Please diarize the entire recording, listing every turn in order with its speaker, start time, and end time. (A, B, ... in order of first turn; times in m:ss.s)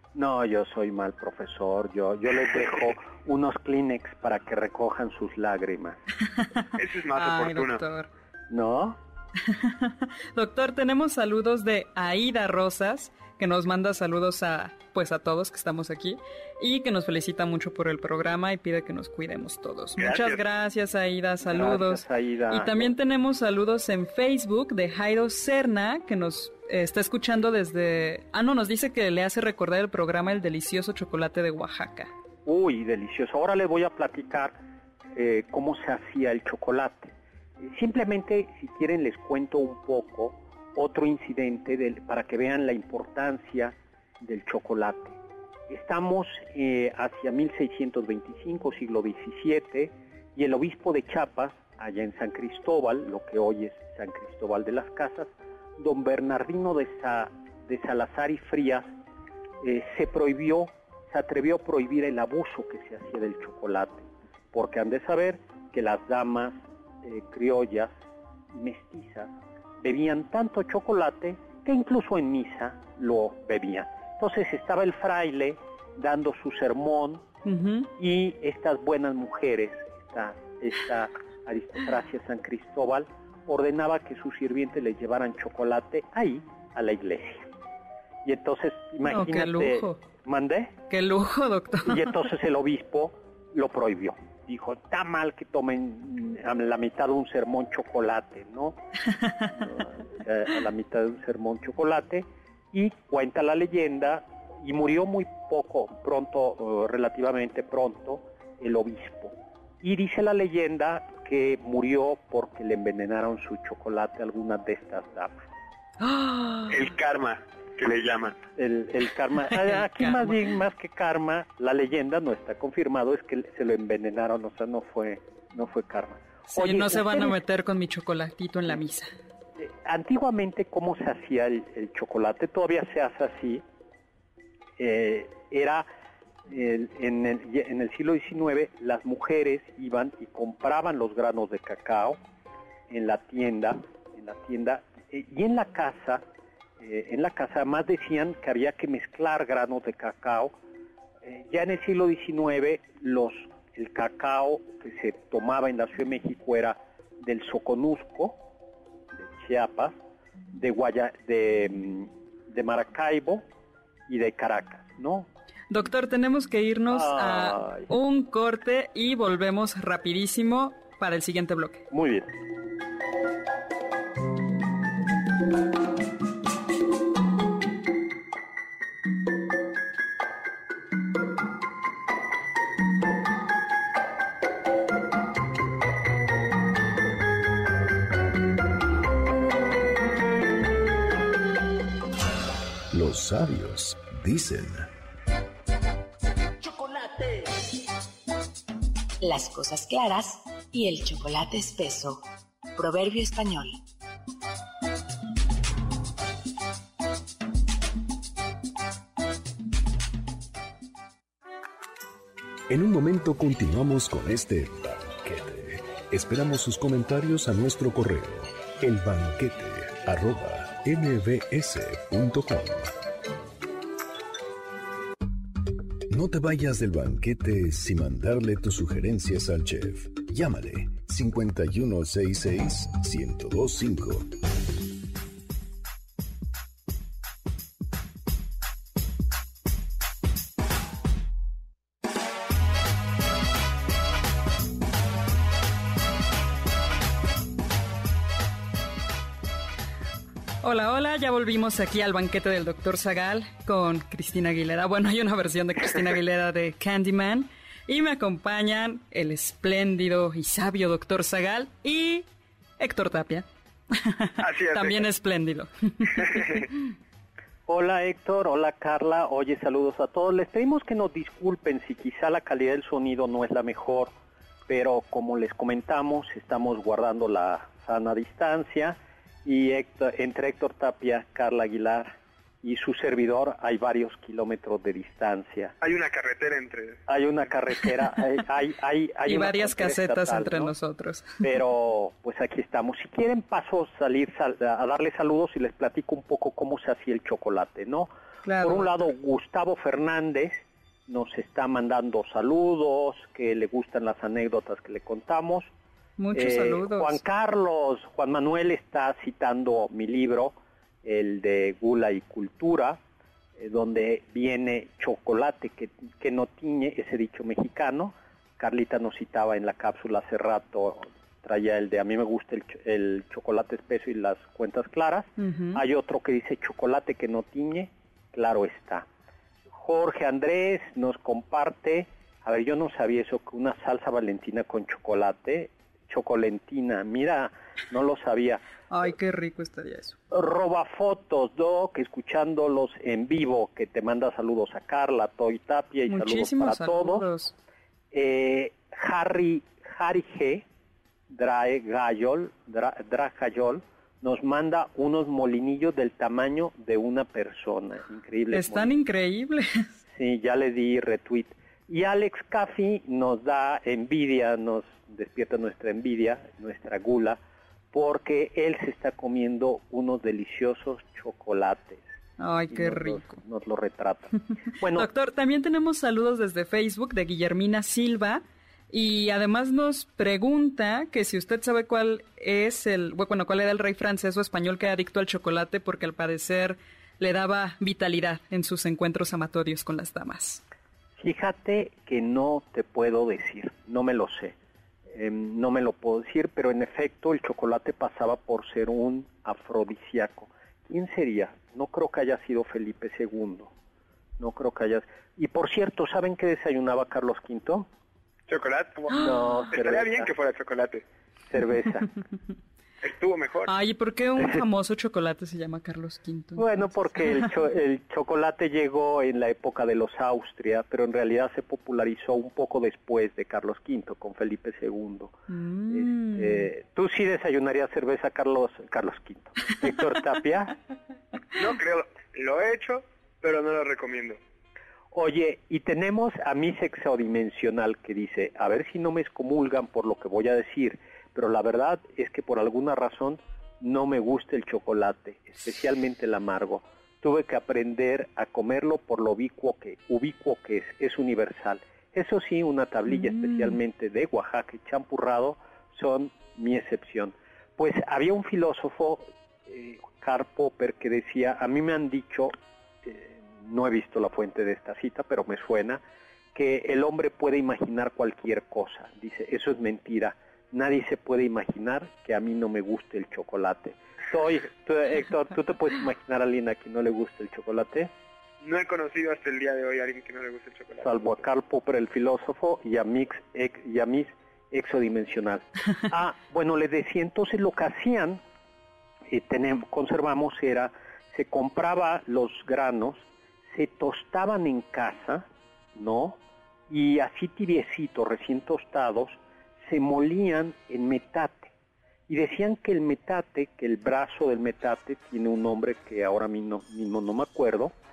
0:00.1-0:06.0 A
0:06.8-0:07.8 B
0:07.1-0:08.1 C
0:08.5-0:09.0 A
0:09.4-0:32.1 C
0:20.0-0:20.4 B
0:21.4-0:22.9 A
0:32.4-0:34.5 A
0:35.1-0:45.2 A
0:45.7-0:58.9 A
0:59.6-1:07.9 A
1:08.5-1:17.2 A
1:17.4-1:17.9 C
1:18.0-1:27.5 A
1:28.2-1:30.7 A
1:29.0-1:30.0 C
1:30.9-1:32.1 C
1:31.8-1:38.8 A
1:39.2-1:39.5 C
1:39.4-1:55.4 A
1:56.0-1:56.8 C
1:56.7-1:58.4 B
1:58.6-2:07.4 A
1:59.5-2:00.5 C
2:06.5-2:09.1 C
2:09.6-2:13.6 A
2:14.8-2:15.9 A
2:16.5-2:22.2 A
2:22.9-2:26.2 A
2:26.8-2:30.5 A
2:31.2-2:38.4 A
2:39.1-2:39.9 A
2:40.5-2:43.4 A
2:44.1-2:45.3 A
2:45.7-2:51.8 C
2:46.9-2:47.9 A
2:51.9-2:52.3 A
3:12.9-3:14.9 D
3:19.2-3:22.2 E
3:22.7-3:23.8 E
3:32.7-3:42.9 D
3:46.1-3:54.3 D
4:10.6-4:22.2 C
4:22.8-4:26.7 C
4:24.4-4:25.0 B
4:26.2-4:26.6 B
4:27.6-4:34.1 A
4:34.7-4:45.7 A
4:45.8-4:47.0 B
4:47.1-4:50.7 A
4:49.2-4:51.4 C
4:51.4-5:05.7 A
4:58.4-4:58.9 C
5:06.2-5:07.2 C
5:06.3-5:13.0 A
5:13.6-5:29.1 A
5:25.4-5:25.8 C
5:29.8-5:38.6 A
5:38.9-5:40.2 C
5:40.3-5:47.3 A
5:46.1-5:47.5 C
5:48.1-5:50.6 A
5:51.3-5:58.9 A
5:58.5-6:00.0 C
6:00.1-6:07.4 A
6:07.9-6:12.0 A
6:12.4-6:13.4 C
6:12.7-6:15.1 A
6:14.9-6:30.6 C
6:31.2-6:34.6 A
6:35.1-6:43.7 A
6:44.4-6:47.9 A
6:48.5-6:51.0 B
6:49.1-6:50.3 A
6:49.2-6:49.6 C
6:51.5-6:52.1 A
6:53.0-6:53.7 B
6:53.7-6:57.4 C
6:56.6-7:05.3 A
7:05.5-7:06.7 C
7:05.9-7:10.8 A
7:11.5-7:14.4 B
7:15.1-7:42.5 A
7:33.1-7:33.8 C
7:43.0-7:46.0 A
7:46.5-7:58.1 A
7:58.6-8:01.4 B
8:01.0-8:08.4 A
8:09.3-8:16.4 A
8:16.9-8:21.7 A
8:22.3-8:27.9 A